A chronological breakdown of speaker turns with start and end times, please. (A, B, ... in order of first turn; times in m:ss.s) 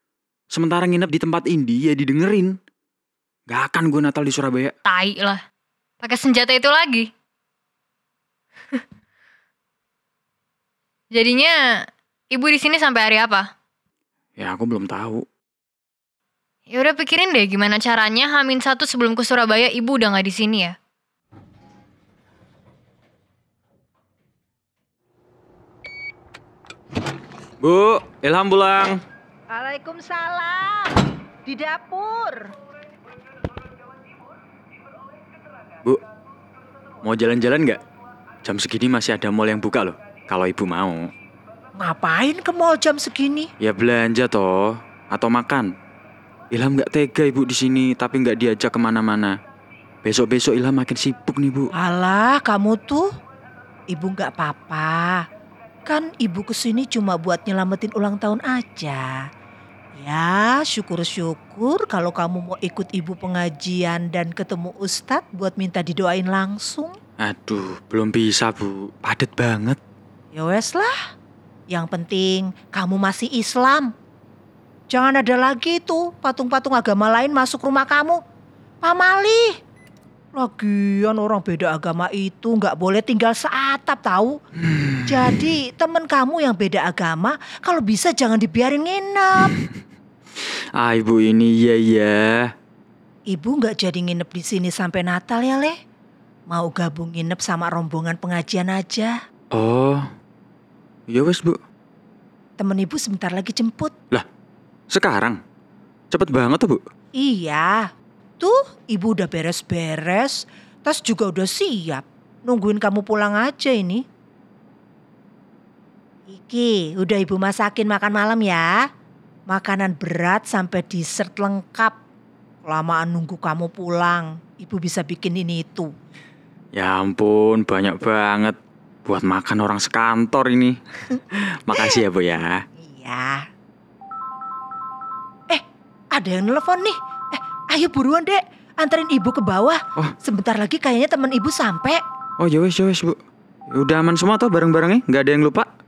0:00.5-0:02.6 A
0:03.5-0:04.7 A
0:04.8-0:05.4 B
0:06.0-0:07.1 B
0:11.1-0:11.6 B
0:12.3-0:13.5 B
0:14.4-0:15.2 A
0:16.7-0:20.8 B
0:27.6-0:29.0 A
0:29.5-0:32.5 C
0:37.0-0:37.8 A
0:38.4-0:41.0 A
0:41.8-0:43.5 C
0:43.6-0:45.7 A
0:46.5-0:49.3 A
0:50.0-0:51.7 A
0:51.8-0:53.1 C
0:53.9-0:55.2 C
0:55.9-0:59.2 C
1:00.0-1:07.0 C
1:07.2-1:09.8 A
1:10.3-1:11.0 C
1:11.7-1:13.9 C
1:14.9-1:18.2 C
1:18.8-1:19.5 C
1:20.4-1:24.4 C
1:24.6-1:25.4 A
1:25.0-1:29.6 C
1:30.4-1:32.5 A
1:33.3-1:35.8 C
1:36.5-1:39.1 C
1:39.5-1:40.0 A
1:41.1-1:41.6 A
1:42.6-1:43.9 C
1:44.9-1:45.4 A
1:46.1-1:46.8 A
1:47.2-1:47.8 C
1:48.4-1:54.0 C
1:56.3-1:58.7 C
1:59.5-2:02.0 C
2:02.6-2:05.9 C
2:06.7-2:12.6 A
2:12.8-2:13.4 C
2:16.2-2:22.0 C
2:22.4-2:23.2 A
2:23.7-2:25.7 A